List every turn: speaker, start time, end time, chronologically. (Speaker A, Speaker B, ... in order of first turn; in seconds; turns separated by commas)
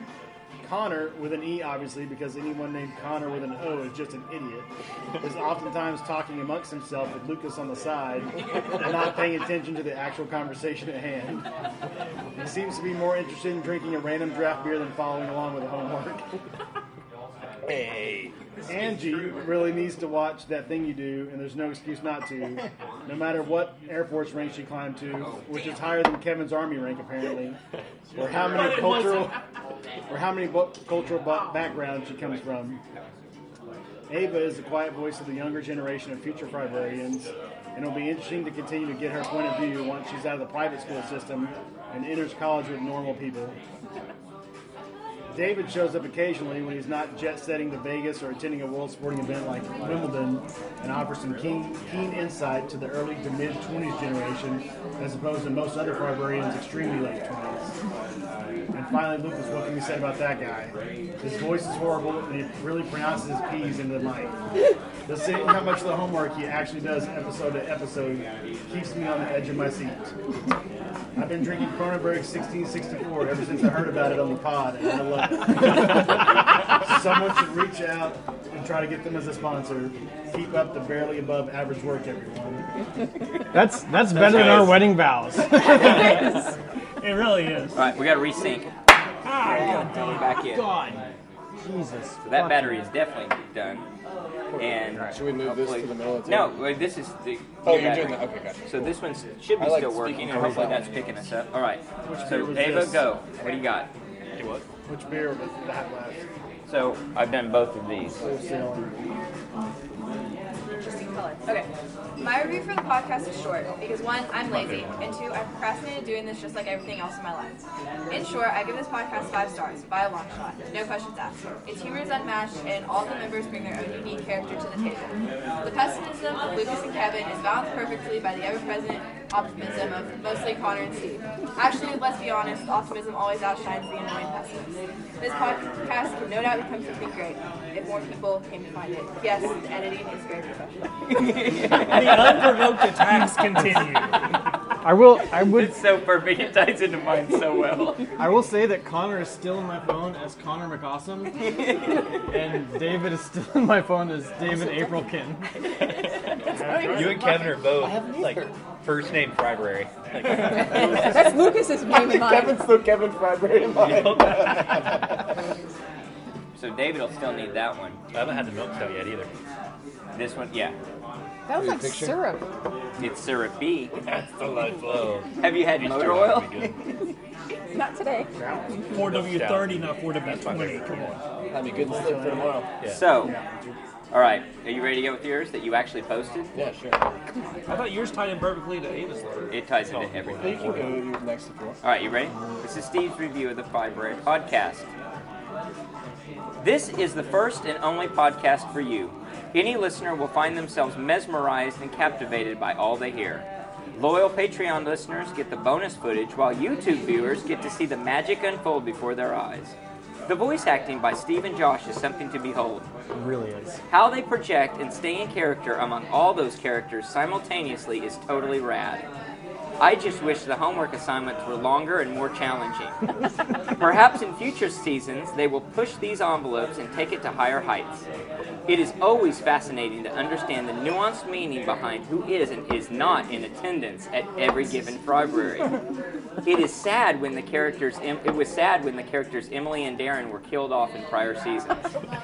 Speaker A: 0.6-11.4, Speaker A: 12.4-16.2, Speaker B: 17.7-18.3, Speaker A: 18.7-27.6, Speaker C: 25.1-25.4, Speaker A: 28.1-29.4, Speaker D: 28.4-29.4, Speaker A: 30.1-32.8, Speaker A: 34.1-43.6, Speaker A: 45.3-57.7, Speaker A: 58.7-64.3, Speaker A: 65.1-70.1, Speaker A: 71.2-82.7, Speaker E: 83.5-86.2, Speaker C: 84.1-84.9, Speaker D: 85.6-87.9, Speaker C: 87.8-88.7, Speaker D: 89.2-90.5, Speaker C: 89.5-90.8, Speaker E: 89.6-91.0, Speaker E: 91.6-92.9, Speaker C: 92.2-93.9, Speaker B: 94.5-96.6, Speaker C: 94.6-103.9, Speaker B: 97.7-99.0, Speaker B: 99.5-101.1, Speaker E: 100.3-100.6, Speaker A: 102.0-103.1, Speaker F: 104.4-104.7, Speaker A: 104.9-106.2, Speaker C: 106.7-108.2, Speaker A: 108.2-109.0, Speaker G: 110.8-134.7, Speaker F: 114.5-115.0, Speaker G: 135.2-140.9, Speaker C: 141.1-142.8, Speaker D: 141.7-144.2, Speaker E: 144.8-145.8, Speaker C: 145.3-148.1, Speaker E: 148.2-151.4, Speaker C: 151.4-152.1, Speaker E: 152.3-155.5, Speaker A: 156.5-157.3, Speaker H: 156.6-157.4, Speaker F: 156.8-161.2, Speaker H: 160.8-162.7, Speaker B: 161.9-165.0, Speaker F: 163.8-164.9, Speaker C: 166.6-168.0, Speaker F: 168.1-169.3, Speaker C: 170.1-170.8, Speaker H: 171.5-172.5, Speaker B: 171.5-172.2, Speaker C: 173.0-173.9, Speaker F: 174.1-176.8, Speaker C: 175.4-177.1, Speaker H: 177.7-178.9, Speaker A: 178.4-178.7, Speaker F: 178.9-181.2, Speaker D: 178.9-181.2, Speaker B: 181.5-182.7, Speaker A: 181.7-183.8, Speaker F: 182.8-183.1, Speaker C: 182.9-183.4, Speaker C: 184.1-186.5, Speaker B: 186.5-187.1, Speaker D: 187.7-189.5, Speaker F: 189.4-191.0, Speaker C: 189.5-191.0, Speaker B: 190.4-191.8, Speaker C: 191.8-194.9, Speaker C: 196.6-212.9, Speaker E: 213.1-213.8, Speaker C: 213.9-219.1, Speaker C: 219.8-223.0, Speaker C: 223.8-228.1, Speaker C: 228.7-235.8, Speaker C: 236.4-241.9